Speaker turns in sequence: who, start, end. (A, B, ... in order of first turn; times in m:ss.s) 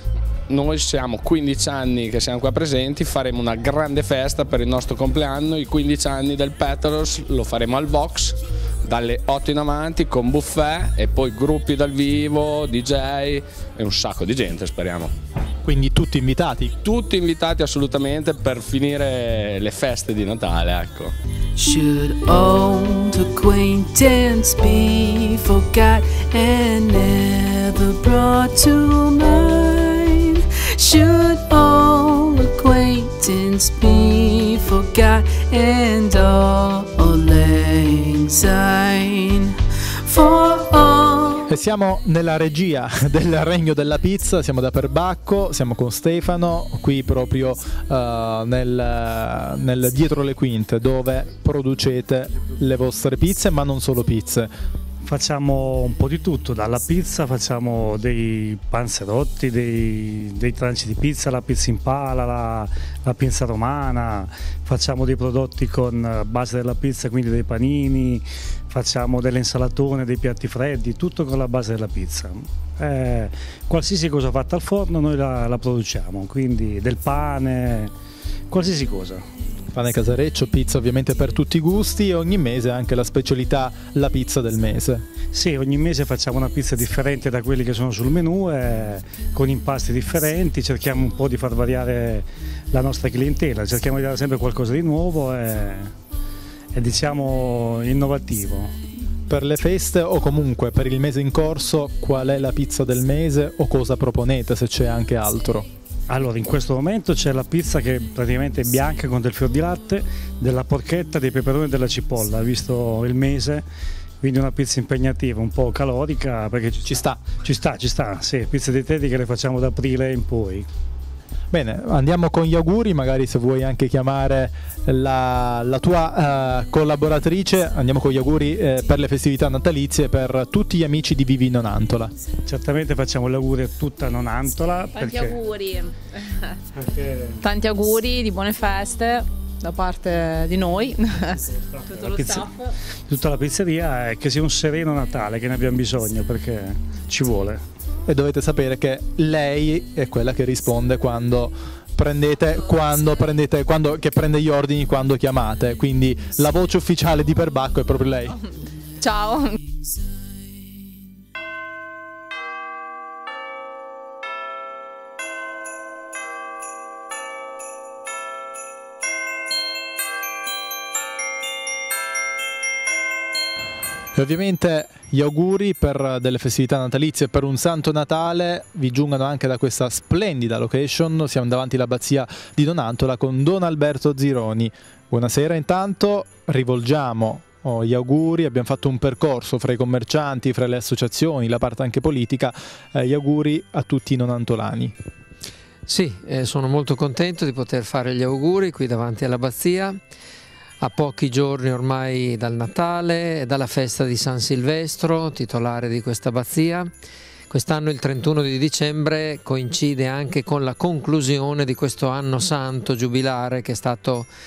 0:00.5-0:15.1 A
0:15.6-0:16.7 B
0:16.8-0:21.1 A
0:21.6-0:41.4 C
0:41.5-0:54.5 B
0:55.0-1:17.9 D
1:18.5-1:19.2 D
1:19.7-1:25.0 B
1:25.3-1:35.9 D
1:36.7-1:38.7 D
1:39.3-1:45.7 B
1:46.1-1:53.6 D
1:54.2-2:00.7 D
1:56.8-1:57.2 B
2:01.5-2:12.1 B
2:12.4-2:15.4 D
2:14.9-2:16.6 E
2:16.7-2:17.4 D
2:17.4-2:22.5 E
2:21.3-2:27.6 D
2:28.0-2:38.4 B
2:39.0-2:39.4 E
2:54.1-3:14.9 B
3:15.9-3:20.0 F
3:20.8-3:26.9 F
3:27.5-3:34.3 F